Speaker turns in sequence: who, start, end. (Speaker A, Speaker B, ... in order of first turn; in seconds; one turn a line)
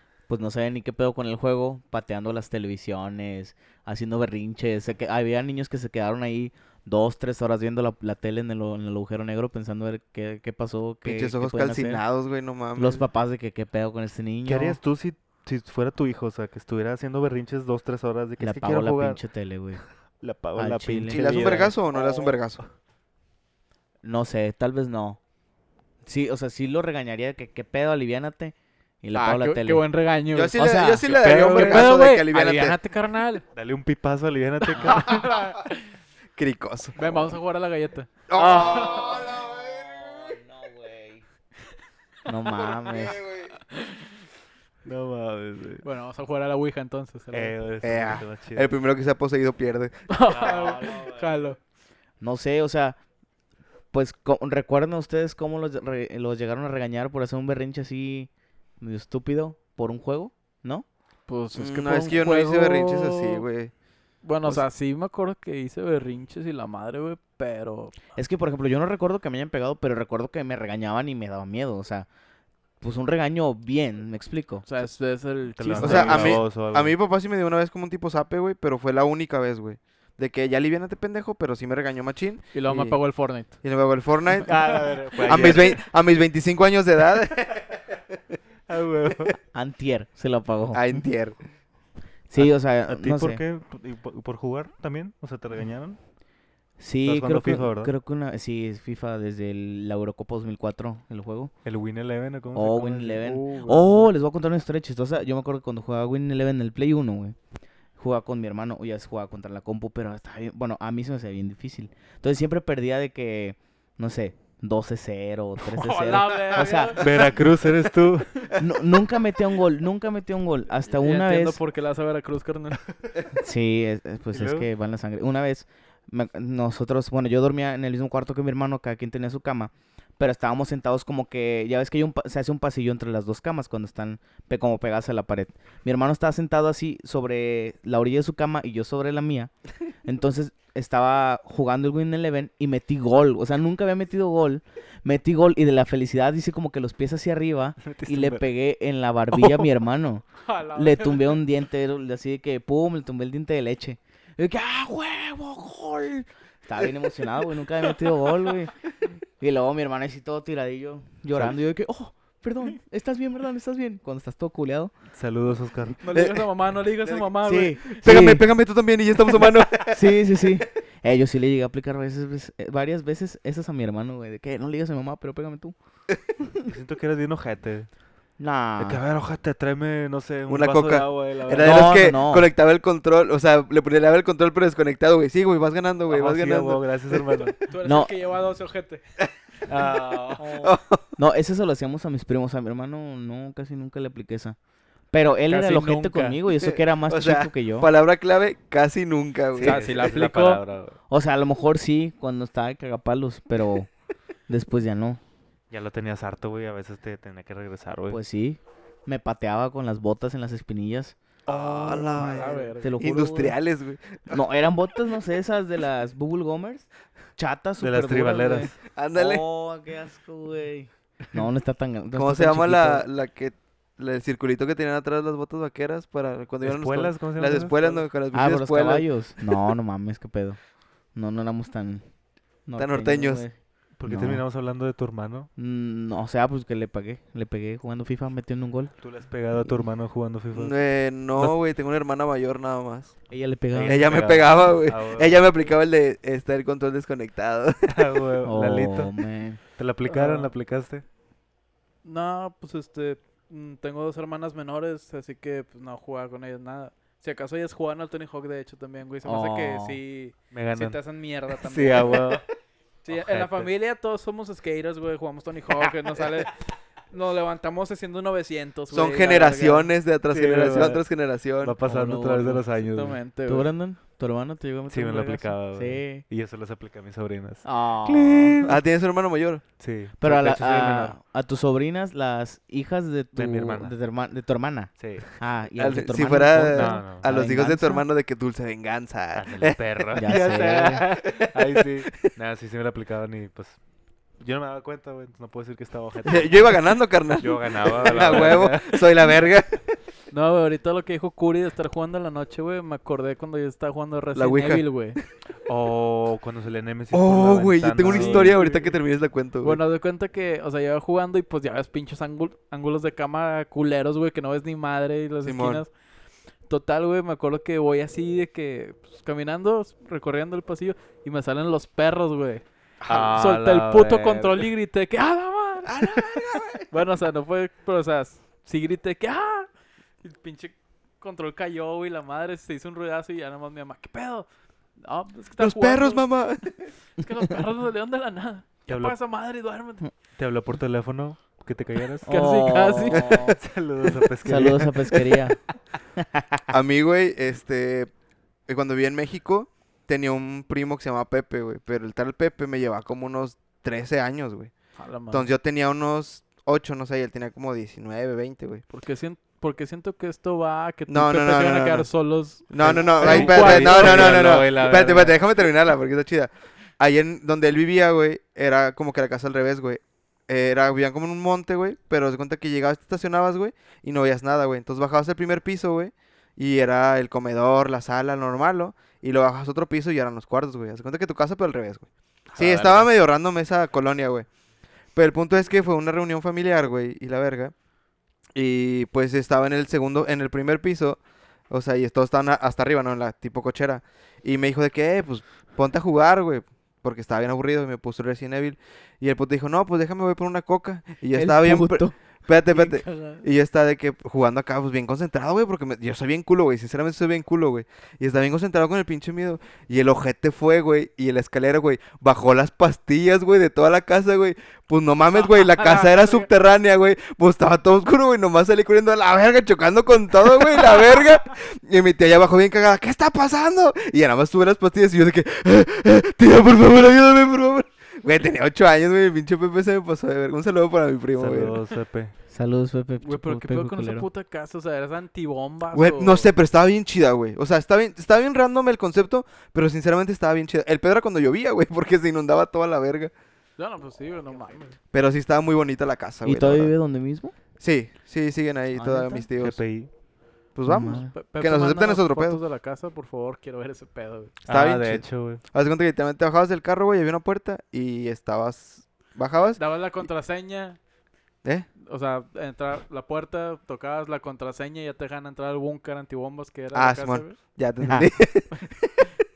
Speaker A: 0.3-12.0
Speaker B: 11.0-13.0
Speaker A: 12.8-14.8
Speaker C: 14.5-19.2
Speaker A: 18.4-19.8
Speaker C: 20.2-22.1
Speaker A: 20.5-22.3
Speaker B: 21.1-22.6
Speaker A: 24.0-25.2
Speaker A: 26.0-29.8
Speaker D: 29.1-30.6
Speaker B: 30.3-32.8
Speaker A: 30.5-31.1
Speaker C: 31.0-31.9
Speaker D: 31.4-33.4
Speaker C: 33.5-35.4
Speaker D: 34.7-35.8
Speaker B: 36.4-37.2
Speaker D: 36.9-39.2
Speaker B: 38.3-40.0
Speaker A: 38.6-41.2
Speaker A: 42.2-43.2
Speaker B: 42.8-43.5
Speaker D: 43.7-44.1
Speaker C: 44.8-45.8
Speaker D: 45.8-47.5
Speaker C: 47.3-48.7
Speaker B: 47.8-50.0
Speaker D: 50.1-51.6
Speaker C: 50.3-51.3
Speaker A: 52.2-53.0
Speaker A: 53.9-60.9
Speaker D: 61.3-63.4
Speaker B: 61.5-63.7
Speaker D: 64.2-68.0
Speaker A: 68.2-72.1
Speaker A: 72.8-74.6
Speaker D: 74.7-76.4
Speaker C: 75.6-76.9
Speaker B: 75.8-82.5
Speaker A: 75.8-76.3
Speaker D: 82.5-83.5
Speaker A: 82.7-83.0
Speaker B: 83.6-84.6
Speaker C: 84.4-85.8
Speaker B: 85.2-88.2
Speaker C: 88.7-89.4
Speaker A: 89.5-90.8
Speaker B: 90.7-91.4
Speaker A: 92.3-93.4
Speaker C: 92.3-96.0
Speaker A: 96.8-101.5
Speaker C: 97.0-97.9
Speaker C: 101.6-103.2
Speaker A: 102.5-107.3
Speaker D: 103.2-104.1
Speaker A: 108.0-117.5
Speaker D: 115.8-117.3
Speaker C: 117.0-118.4
Speaker A: 118.5-121.6
Speaker D: 121.0-122.8
Speaker A: 123.3-139.5
Speaker C: 124.3-124.7
Speaker A: 140.0-158.7
Speaker C: 147.8-148.4
Speaker D: 150.4-151.4
Speaker A: 159.4-164.9
Speaker C: 165.1-166.0
Speaker D: 166.0-168.0
Speaker B: 166.1-166.4
Speaker B: 167.0-170.0
Speaker A: 167.4-168.5
Speaker A: 169.9-175.7
Speaker A: 176.4-176.7
Speaker C: 176.7-177.9
Speaker A: 178.4-179.0
Speaker C: 178.8-182.2
Speaker B: 180.5-187.5
Speaker A: 181.6-182.5
Speaker C: 186.1-187.6
Speaker D: 187.7-189.0
Speaker A: 187.8-188.1
Speaker C: 189.7-190.5
Speaker D: 190.4-190.7
Speaker B: 190.6-191.1
Speaker A: 191.2-194.6
Speaker A: 195.1-197.9
Speaker D: 195.4-196.4
Speaker B: 196.6-199.8
Speaker C: 199.5-201.0
Speaker D: 199.6-200.6
Speaker A: 201.1-203.9
Speaker A: 204.5-205.2
Speaker C: 205.7-208.2
Speaker A: 208.1-213.6
Speaker B: 211.5-214.4
Speaker C: 211.9-212.4
Speaker D: 212.2-212.8
Speaker A: 214.3-223.0
Speaker C: 217.8-218.8
Speaker B: 218.9-219.4
Speaker B: 222.1-229.5
Speaker C: 226.6-228.0
Speaker A: 228.3-230.6
Speaker A: 231.1-232.0
Speaker A: 232.7-234.4
Speaker B: 232.8-233.4
Speaker C: 234.0-235.5
Speaker A: 235.6-238.9
Speaker C: 239.0-240.8
Speaker B: 240.5-243.2
Speaker A: 243.3-244.2
Speaker C: 243.7-245.5
Speaker B: 243.8-247.9
Speaker C: 247.9-249.2
Speaker A: 248.4-249.6
Speaker C: 249.8-251.0
Speaker D: 250.1-250.5
Speaker D: 252.0-262.2
Speaker A: 259.2-260.0
Speaker C: 260.5-261.0
Speaker C: 261.6-262.4
Speaker D: 263.0-266.5
Speaker C: 263.1-263.7
Speaker D: 267.1-269.9
Speaker B: 268.9-271.8
Speaker C: 270.3-271.0
Speaker C: 271.6-273.2
Speaker A: 271.8-272.6
Speaker D: 272.8-273.7
Speaker A: 273.4-276.2
Speaker C: 274.9-277.6
Speaker A: 277.6-278.8
Speaker B: 278.6-279.6
Speaker C: 279.8-281.1
Speaker A: 280.2-288.1
Speaker C: 283.3-283.9
Speaker C: 285.0-285.3
Speaker B: 285.8-289.9
Speaker C: 286.6-287.2
Speaker C: 289.3-293.8
Speaker A: 290.1-291.0
Speaker B: 290.8-291.5
Speaker C: 294.4-296.8
Speaker B: 296.2-299.9
Speaker C: 297.4-299.0
Speaker D: 300.3-305.2
Speaker B: 304.3-304.8
Speaker C: 305.6-308.6
Speaker B: 307.1-309.8
Speaker D: 308.0-309.0
Speaker D: 309.6-315.9
Speaker B: 315.4-315.8
Speaker D: 316.7-322.6
Speaker B: 323.0-323.4
Speaker C: 323.1-324.6
Speaker D: 323.3-325.9
Speaker B: 325.8-326.9
Speaker D: 326.9-329.7
Speaker D: 330.2-336.2
Speaker B: 335.6-336.8
Speaker D: 337.2-340.1
Speaker C: 338.9-339.2
Speaker C: 340.4-342.3
Speaker A: 342.2-343.6
Speaker D: 342.3-343.2
Speaker C: 343.2-345.4
Speaker A: 344.4-345.6
Speaker A: 346.2-346.6
Speaker B: 346.7-348.1
Speaker B: 348.7-354.7
Speaker D: 354.9-355.5
Speaker B: 355.3-358.8
Speaker D: 358.9-364.6
Speaker B: 361.1-384.5
Speaker C: 362.8-365.4
Speaker C: 382.6-383.1
Speaker B: 385.1-387.7
Speaker B: 388.5-431.8
Speaker A: 401.3-402.2
Speaker D: 402.7-403.4
Speaker D: 415.3-416.5
Speaker C: 431.4-432.3
Speaker A: 432.5-434.2
Speaker D: 433.2-436.5
Speaker B: 435.9-443.3
Speaker D: 443.8-444.9
Speaker B: 445.1-446.9
Speaker A: 446.4-447.5
Speaker B: 447.8-449.8
Speaker A: 448.9-449.5
Speaker C: 449.6-450.1
Speaker B: 450.7-452.6
Speaker A: 450.9-451.3
Speaker D: 451.3-454.5
Speaker C: 454.7-455.6
Speaker B: 454.7-459.8
Speaker D: 459.8-461.0
Speaker D: 462.0-467.6
Speaker B: 466.9-469.3